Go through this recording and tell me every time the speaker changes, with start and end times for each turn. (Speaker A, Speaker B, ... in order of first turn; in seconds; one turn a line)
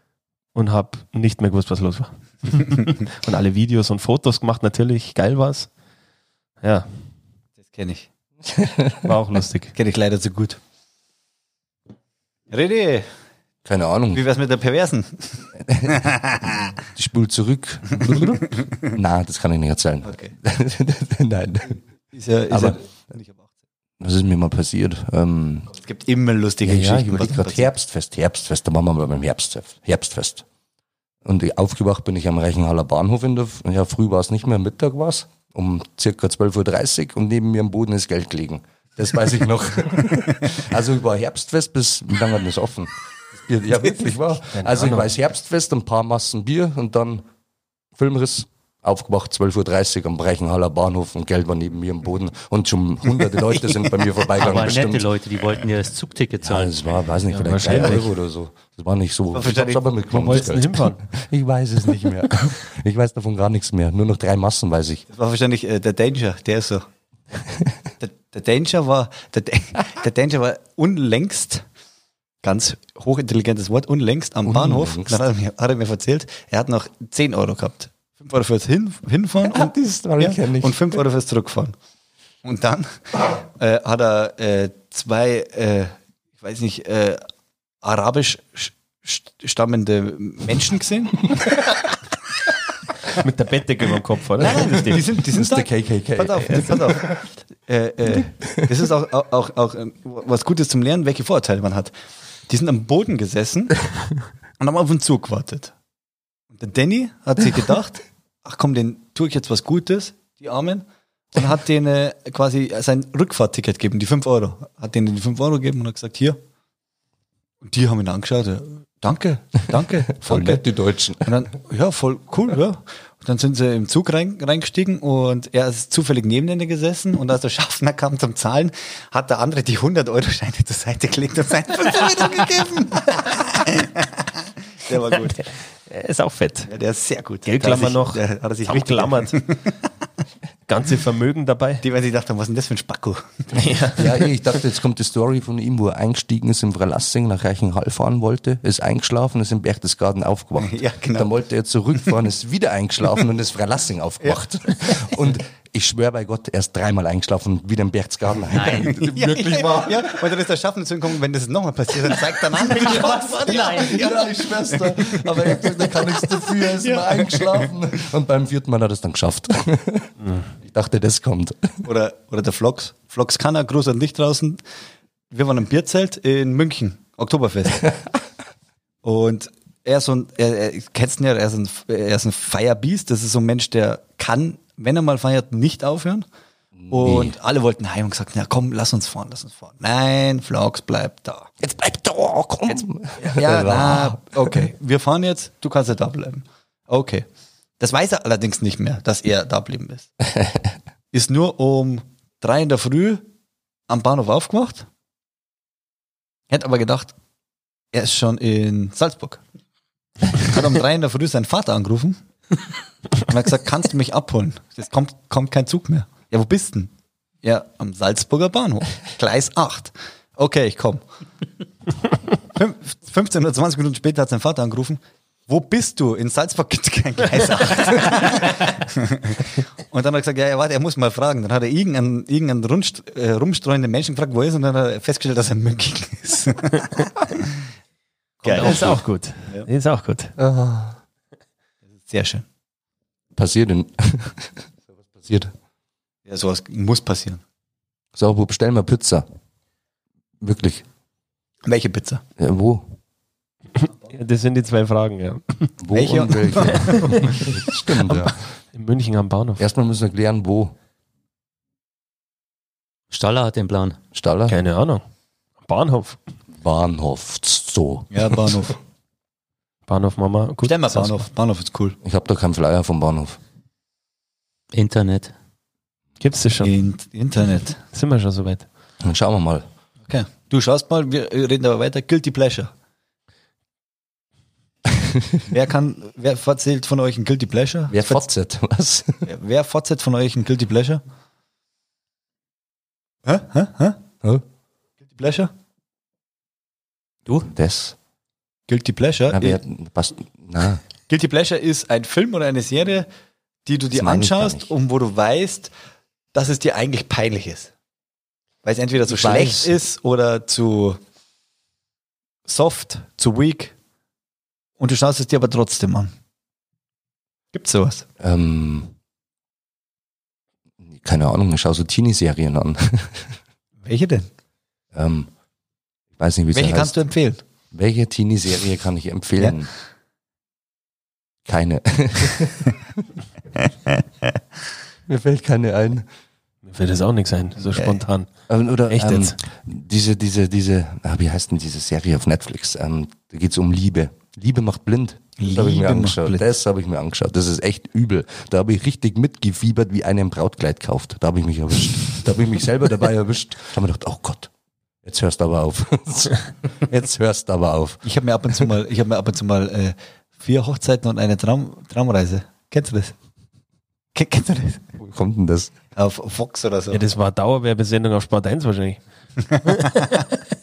Speaker A: 0.5-5.7
Speaker A: 6.6-7.0
Speaker B: 7.6-8.1
Speaker C: 8.5-9.1
Speaker A: 9.0-9.7
Speaker B: 9.7-10.6
Speaker B: 12.5-13.1
Speaker C: 13.6-14.2
Speaker B: 14.1-16.7
Speaker C: 15.6-15.9
Speaker C: 16.9-21.8
Speaker B: 17.9-18.9
Speaker B: 20.0-20.3
Speaker B: 22.1-23.5
Speaker C: 22.5-22.8
Speaker C: 24.0-25.7
Speaker B: 25.7-27.7
Speaker C: 26.6-30.4
Speaker C: 31.2-47.2
Speaker A: 44.5-45.1
Speaker C: 48.0-55.1
Speaker D: 54.4-56.8
Speaker C: 56.4-65.0
Speaker A: 57.3-58.1
Speaker B: 59.3-60.3
Speaker A: 60.1-61.0
Speaker B: 65.1-66.8
Speaker B: 68.0-71.6
Speaker B: 72.4-81.7
Speaker C: 74.4-75.2
Speaker C: 79.4-81.0
Speaker B: 82.4-87.2
Speaker B: 87.8-91.2
Speaker A: 93.1-95.1
Speaker B: 94.4-101.9
Speaker C: 95.2-97.2
Speaker B: 102.5-103.8
Speaker B: 104.6-105.7
Speaker B: 106.5-116.4
Speaker B: 117.6-120.6
Speaker C: 120.2-121.3
Speaker B: 121.2-134.3
Speaker B: 134.8-135.4
Speaker A: 135.4-136.7
Speaker B: 136.7-139.7
Speaker A: 137.4-139.4
Speaker A: 140.7-141.8
Speaker B: 141.8-143.6
Speaker A: 143.5-144.3
Speaker C: 143.9-160.3
Speaker B: 150.6-151.3
Speaker D: 158.5-159.0
Speaker B: 159.0-164.0
Speaker C: 162.5-170.1
Speaker D: 162.6-164.1
Speaker B: 164.7-167.7
Speaker A: 170.2-170.5
Speaker C: 170.6-171.8
Speaker B: 171.8-174.6
Speaker B: 175.3-177.8
Speaker B: 179.0-186.2
Speaker C: 186.8-187.3
Speaker B: 186.9-191.5
Speaker C: 191.6-194.6
Speaker B: 193.2-197.2
Speaker B: 197.8-200.1
Speaker C: 200.3-200.7
Speaker B: 201.1-203.2
Speaker B: 203.9-204.9
Speaker B: 206.5-207.1
Speaker B: 207.9-209.4
Speaker B: 210.3-212.2
Speaker B: 213.2-216.9
Speaker B: 217.4-221.0
Speaker B: 222.5-237.5
Speaker B: 238.4-239.7
Speaker A: 238.4-240.3
Speaker C: 240.4-241.0
Speaker B: 242.1-242.4
Speaker C: 243.3-245.5
Speaker B: 246.2-247.4
Speaker C: 248.1-249.2
Speaker C: 250.4-250.8
Speaker B: 251.7-252.2
Speaker C: 252.4-252.9
Speaker A: 253.8-255.7
Speaker C: 255.8-258.4
Speaker B: 255.9-257.1
Speaker A: 256.9-259.6
Speaker C: 259.6-260.8
Speaker D: 263.1-264.0
Speaker C: 264.1-264.6
Speaker A: 264.5-265.0
Speaker A: 265.6-266.2
Speaker C: 266.5-268.6
Speaker B: 268.1-268.8
Speaker A: 269.9-271.2
Speaker B: 270.6-271.9
Speaker C: 272.0-273.4
Speaker D: 274.7-275.3
Speaker A: 276.2-276.7
Speaker B: 276.6-277.8
Speaker A: 277.9-278.7
Speaker C: 279.0-279.6
Speaker B: 280.1-282.7
Speaker C: 285.0-285.3
Speaker B: 285.5-288.3
Speaker C: 287.9-289.2
Speaker B: 289.2-291.0
Speaker B: 293.2-294.0
Speaker B: 295.1-295.5
Speaker C: 297.4-297.9
Speaker B: 298.7-299.6
Speaker C: 299.3-300.8
Speaker B: 301.1-303.1
Speaker B: 303.6-305.7
Speaker C: 303.9-304.7
Speaker B: 306.3-307.7
Speaker B: 308.6-311.0
Speaker C: 309.1-309.8
Speaker B: 312.4-313.7
Speaker B: 314.8-316.1
Speaker B: 317.5-318.0
Speaker C: 318.2-318.9
Speaker C: 320.8-323.3
Speaker B: 323.8-324.3
Speaker C: 324.9-325.3
Speaker C: 326.2-327.0
Speaker B: 326.5-327.4
Speaker C: 327.7-329.7
Speaker C: 331.4-332.8
Speaker C: 335.1-336.1
Speaker A: 336.6-338.3
Speaker B: 337.7-338.0
Speaker C: 338.5-354.5
Speaker A: 338.9-339.4
Speaker B: 345.4-346.5
Speaker C: 355.0-358.0
Speaker B: 358.0-363.1
Speaker B: 364.1-364.8
Speaker C: 365.0-365.7
Speaker B: 365.9-367.0
Speaker A: 366.9-369.0
Speaker A: 369.6-370.3